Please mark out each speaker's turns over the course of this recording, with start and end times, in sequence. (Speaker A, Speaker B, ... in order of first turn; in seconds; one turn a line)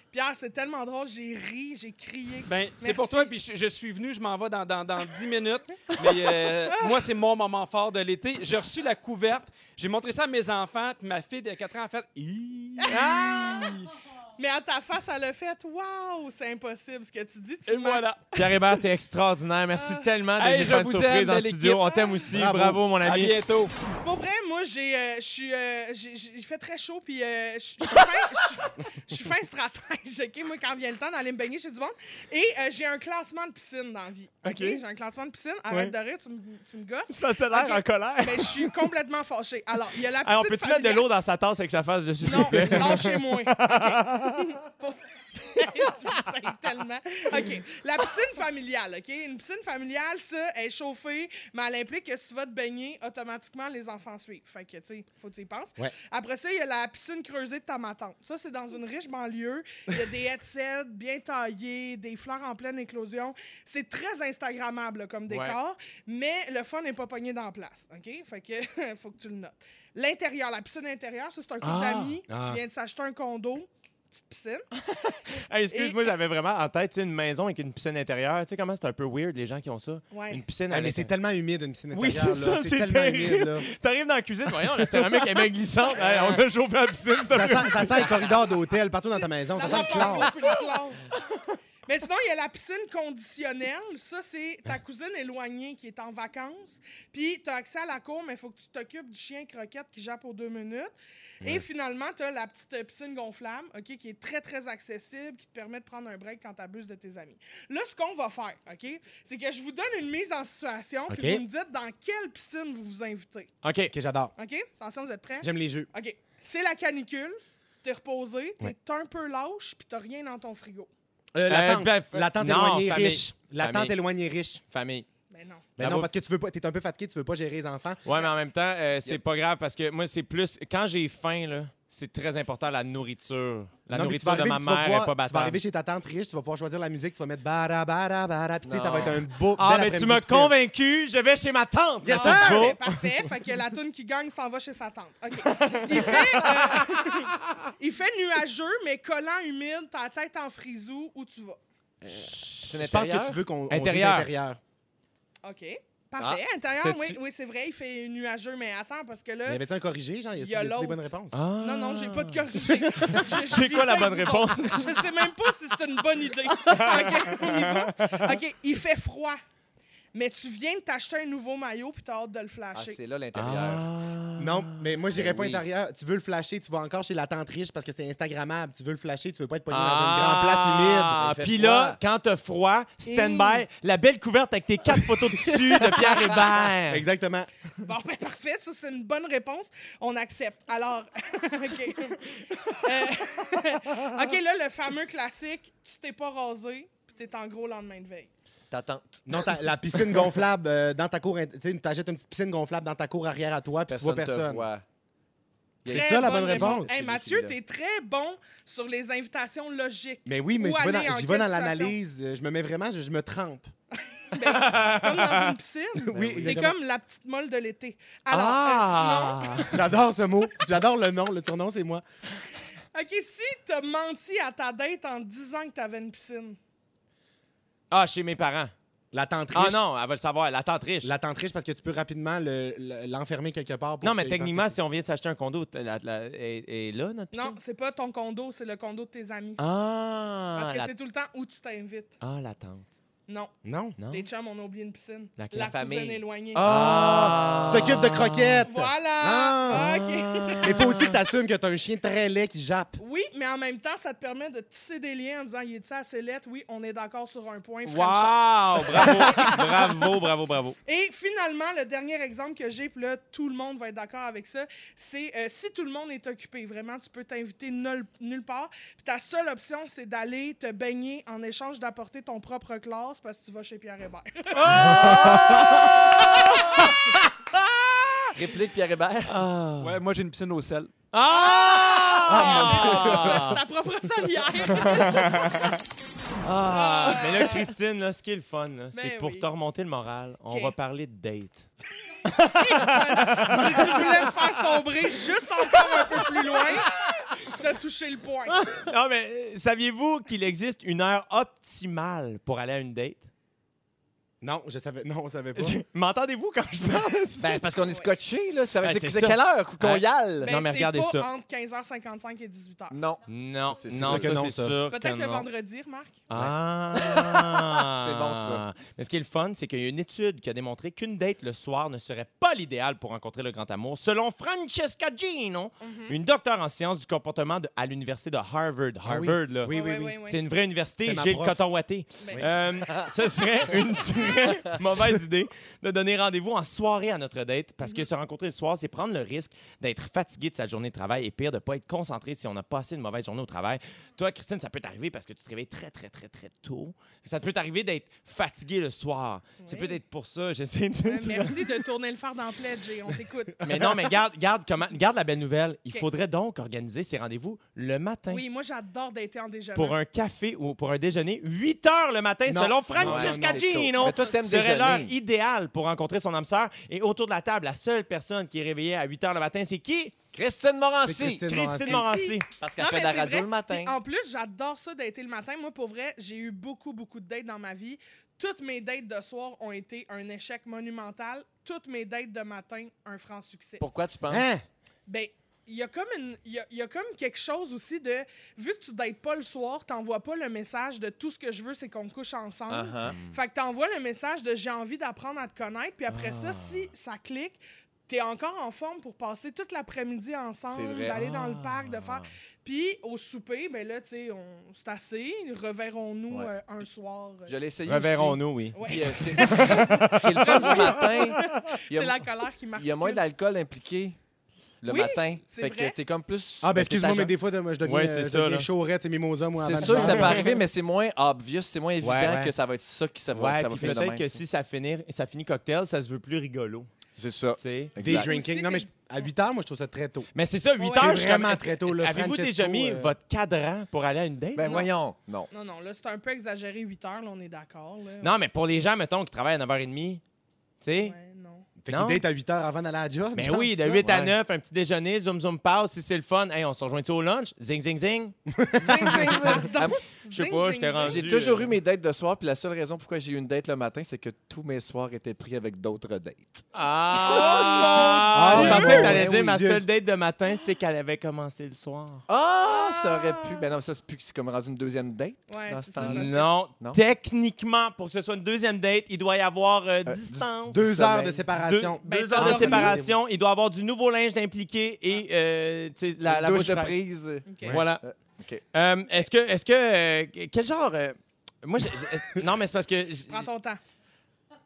Speaker A: 0.1-3.3
Speaker B: 2.4-13.9
Speaker A: 12.8-13.7
Speaker C: 12.9-13.7
Speaker A: 14.4-18.0
Speaker B: 17.6-18.6
Speaker C: 18.3-23.3
Speaker A: 19.7-20.1
Speaker B: 20.4-22.0
Speaker D: 22.3-22.8
Speaker B: 23.0-23.7
Speaker A: 24.0-41.0
Speaker C: 34.4-34.8
Speaker C: 35.7-35.9
Speaker C: 37.1-38.8
Speaker C: 40.1-44.5
Speaker A: 42.2-74.6
Speaker D: 42.5-42.9
Speaker C: 65.3-65.6
Speaker C: 71.6-72.2
Speaker D: 72.3-72.6
Speaker C: 74.8-81.1
Speaker A: 75.7-76.1
Speaker A: 80.1-80.4
Speaker D: 80.7-83.7
Speaker C: 81.9-88.3
Speaker D: 85.9-86.4
Speaker D: 87.3-90.3
Speaker A: 89.0-91.0
Speaker C: 89.6-90.6
Speaker A: 91.8-113.5
Speaker D: 111.1-111.4
Speaker C: 113.6-113.9
Speaker D: 113.9-114.3
Speaker A: 114.4-120.9
Speaker D: 115.4-115.9
Speaker D: 121.3-124.6
Speaker C: 121.5-123.9
Speaker C: 124.7-125.0
Speaker A: 125.3-125.7
Speaker D: 125.8-128.0
Speaker C: 125.8-126.1
Speaker C: 128.0-135.6
Speaker D: 133.9-140.5
Speaker E: 138.6-139.2
Speaker C: 139.5-142.8
Speaker D: 142.0-142.8
Speaker A: 142.1-151.6
Speaker C: 145.5-147.1
Speaker D: 152.0-154.6
Speaker E: 152.6-153.4
Speaker C: 153.7-154.3
Speaker A: 155.4-159.6
Speaker C: 156.8-157.2
Speaker D: 159.4-161.4
Speaker A: 160.4-161.0
Speaker C: 161.3-165.1
Speaker A: 161.6-169.4
Speaker C: 166.6-168.4
Speaker A: 170.1-173.0
Speaker E: 172.7-173.9
Speaker C: 173.3-175.0
Speaker D: 174.4-181.2
Speaker E: 175.2-175.6
Speaker C: 179.7-187.1
Speaker E: 181.1-182.0
Speaker A: 183.0-183.6
Speaker D: 186.9-187.5
Speaker A: 187.8-198.3
Speaker E: 198.7-200.2
Speaker D: 199.3-204.7
Speaker E: 203.9-204.8
Speaker E: 205.8-207.5
Speaker D: 205.9-206.9
Speaker A: 205.9-211.9
Speaker D: 210.2-213.7
Speaker A: 214.3-219.7
Speaker C: 214.4-215.6
Speaker D: 216.0-216.8
Speaker E: 216.1-216.6
Speaker C: 218.3-219.8
Speaker D: 219.7-222.0
Speaker A: 222.9-226.6
Speaker C: 227.9-228.7
Speaker D: 229.1-229.8
Speaker C: 229.5-231.1
Speaker D: 231.0-234.8
Speaker C: 234.0-237.6
Speaker A: 237.3-239.6
Speaker E: 239.6-240.9
Speaker A: 240.6-242.1
Speaker C: 242.2-242.9
Speaker A: 243.3-243.5
Speaker D: 243.6-244.0
Speaker C: 244.0-244.2
Speaker A: 244.1-246.7
Speaker C: 245.4-245.7
Speaker E: 245.5-248.1
Speaker D: 246.5-249.9
Speaker C: 246.6-248.7
Speaker A: 248.6-250.8
Speaker C: 249.7-251.2
Speaker D: 250.6-253.0
Speaker A: 253.0-259.6
Speaker C: 257.9-260.8
Speaker D: 259.0-259.8
Speaker A: 260.9-276.9
Speaker C: 274.5-278.4
Speaker D: 274.9-275.9
Speaker E: 278.3-279.4
Speaker C: 279.3-280.0
Speaker B: 279.8-280.9
Speaker C: 281.1-283.6
Speaker A: 281.3-285.7
Speaker D: 282.3-283.5
Speaker C: 284.7-285.8
Speaker C: 286.4-291.7
Speaker A: 286.6-287.7
Speaker A: 288.9-289.4
Speaker A: 290.5-290.7
Speaker A: 292.2-298.7
Speaker C: 292.3-294.8
Speaker C: 296.5-297.4
Speaker C: 298.5-303.3
Speaker D: 304.4-305.8
Speaker C: 305.6-307.6
Speaker E: 307.4-310.5
Speaker C: 308.8-311.3
Speaker A: 310.4-313.0
Speaker E: 312.9-313.2
Speaker C: 313.3-315.5
Speaker E: 313.8-314.3
Speaker D: 313.9-314.8
Speaker A: 314.9-316.2
Speaker C: 316.3-351.8
Speaker D: 316.4-317.5
Speaker E: 317.8-318.6
Speaker A: 325.8-326.1
Speaker D: 329.0-330.2
Speaker A: 329.7-330.4
Speaker D: 331.0-331.6
Speaker A: 349.6-350.0
Speaker A: 351.0-353.6
Speaker D: 353.6-354.1
Speaker C: 353.6-358.4
Speaker A: 358.3-360.0
Speaker C: 359.8-370.1
Speaker D: 362.4-363.9
Speaker E: 363.0-365.1
Speaker E: 370.3-371.5
Speaker D: 371.0-372.3
Speaker C: 371.5-372.4
Speaker A: 371.8-383.8
Speaker E: 372.6-373.9
Speaker E: 383.8-384.6
Speaker D: 384.3-384.6
Speaker A: 385.1-407.5
Speaker E: 392.7-393.1
Speaker C: 393.1-393.3
Speaker C: 396.3-396.7
Speaker E: 400.7-401.2
Speaker C: 401.1-402.2
Speaker E: 407.5-414.2
Speaker C: 407.9-409.5
Speaker A: 408.7-413.2
Speaker E: 414.8-417.3
Speaker A: 414.9-415.9
Speaker D: 416.6-420.6
Speaker C: 417.8-418.7
Speaker E: 419.6-424.4
Speaker C: 419.7-420.5
Speaker C: 422.0-422.5
Speaker C: 423.3-426.9
Speaker E: 427.2-428.3
Speaker C: 427.6-427.9
Speaker D: 428.0-430.3
Speaker A: 428.1-428.9
Speaker C: 430.3-434.9
Speaker A: 430.8-431.2
Speaker D: 430.9-433.1
Speaker E: 434.5-435.5
Speaker A: 435.5-438.3
Speaker C: 438.2-440.2
Speaker C: 440.8-441.1
Speaker A: 440.9-441.6
Speaker D: 441.8-444.1
Speaker C: 441.9-442.2
Speaker C: 443.3-448.3
Speaker E: 444.0-444.3
Speaker D: 448.5-449.6
Speaker E: 448.8-450.0
Speaker A: 449.0-451.2
Speaker C: 450.3-451.7
Speaker E: 451.0-456.6
Speaker C: 456.7-462.2
Speaker A: 457.2-459.1
Speaker E: 457.3-457.6
Speaker D: 458.3-459.8
Speaker E: 458.5-459.5
Speaker E: 462.3-467.0
Speaker A: 462.6-463.6
Speaker A: 465.5-466.5
Speaker C: 465.9-476.9
Speaker E: 470.1-471.4
Speaker D: 470.7-473.1
Speaker A: 472.0-473.0
Speaker E: 476.2-478.6
Speaker A: 477.4-477.8
Speaker C: 477.6-478.0
Speaker C: 478.7-483.5
Speaker A: 483.3-483.8